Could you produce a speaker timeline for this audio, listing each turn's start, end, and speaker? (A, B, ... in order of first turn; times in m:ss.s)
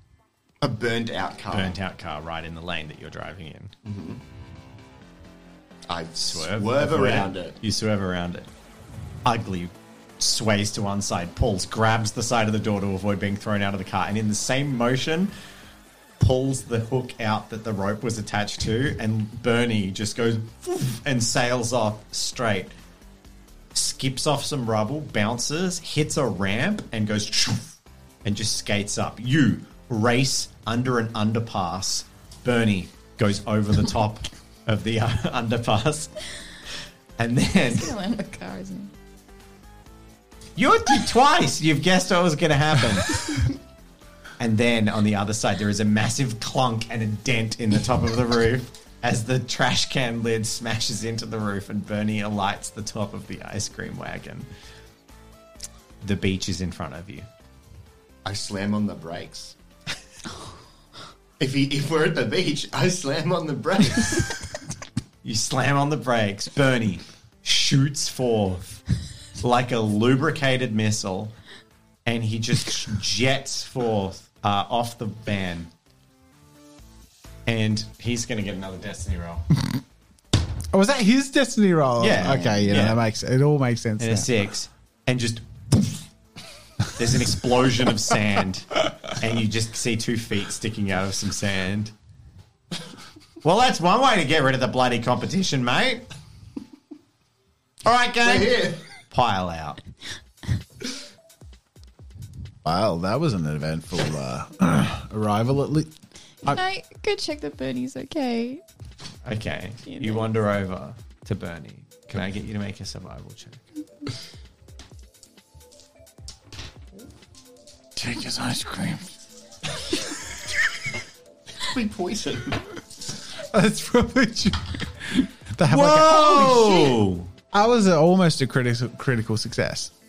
0:00.6-0:01.8 A
0:01.5-0:03.8 B
0:03.8-0:04.2 A
0:05.9-0:07.6 A
0:06.2-0:08.5 B
0:09.2-0:15.3 B
0:16.2-0:22.7 B
0:23.7-0:27.7 B
0:28.2-0:36.1 B
0:37.2-0:37.9 B
0:37.6-0:38.9 C
0:40.6-0:43.5 B
0:44.4-0:54.5 B
0:56.0-0:57.3 B
0:58.2-0:59.6 A
1:01.4-1:04.4 A
1:05.2-1:08.8 B
1:09.4-1:11.4 B
1:12.1-1:15.7 B
1:17.5-1:19.4 B
1:20.7-1:24.4 D
1:22.0-1:23.0 B
1:24.0-1:26.1 B
1:26.8-1:31.9 B
1:33.4-1:36.1 B
1:37.8-1:39.8 B
1:38.2-1:38.8 A
1:42.6-1:45.9 D
1:46.4-1:48.6 C
1:49.2-1:53.6 B
1:49.9-1:50.2 C
1:58.0-1:59.2 D
2:01.6-2:02.6 A
2:03.5-2:07.0 D
2:05.6-2:07.3 B
2:07.5-2:09.9 D